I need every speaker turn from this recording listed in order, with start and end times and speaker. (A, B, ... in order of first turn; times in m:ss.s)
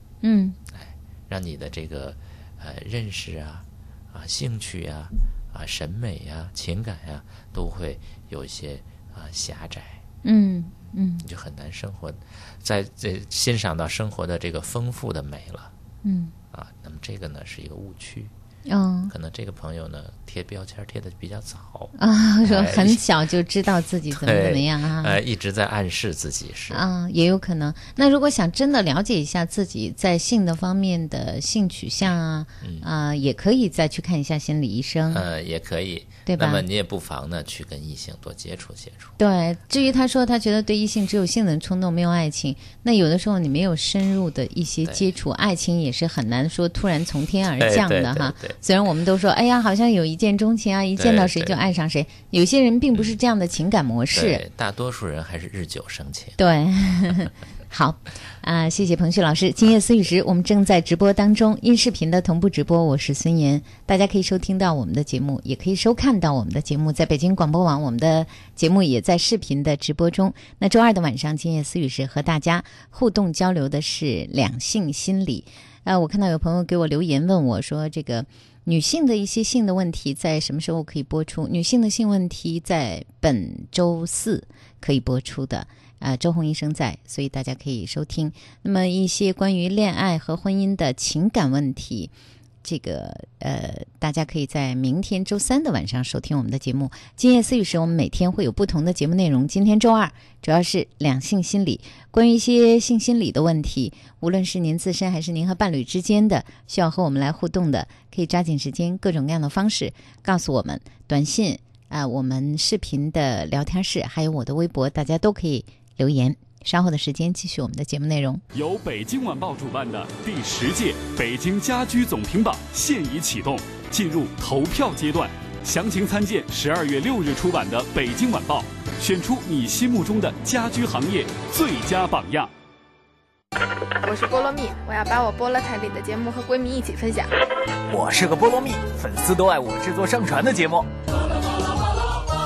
0:00.2-0:00.6 A
0:00.7-0:10.0 B
0:10.2-0:11.2 A
0:11.2-0:15.7 B
0:16.0-0:16.3 A
0:16.5-0:18.3 B
0:18.7-0:19.1 A
0:19.1-0:23.0 B
0:22.0-0:25.2 A
0:24.1-0:26.8 B
0:26.7-0:35.2 A
0:32.6-0:32.9 B
0:35.1-0:39.2 B
0:36.3-0:36.6 A
0:39.2-0:54.4 A
0:47.6-0:48.6 B
0:51.0-0:51.7 B
0:52.9-0:53.2 B
0:54.1-0:56.4 B
0:56.4-1:32.1 A
1:32.6-1:58.4 A
1:58.5-2:12.5 C
2:14.0-2:17.3 D
2:17.9-2:20.9 E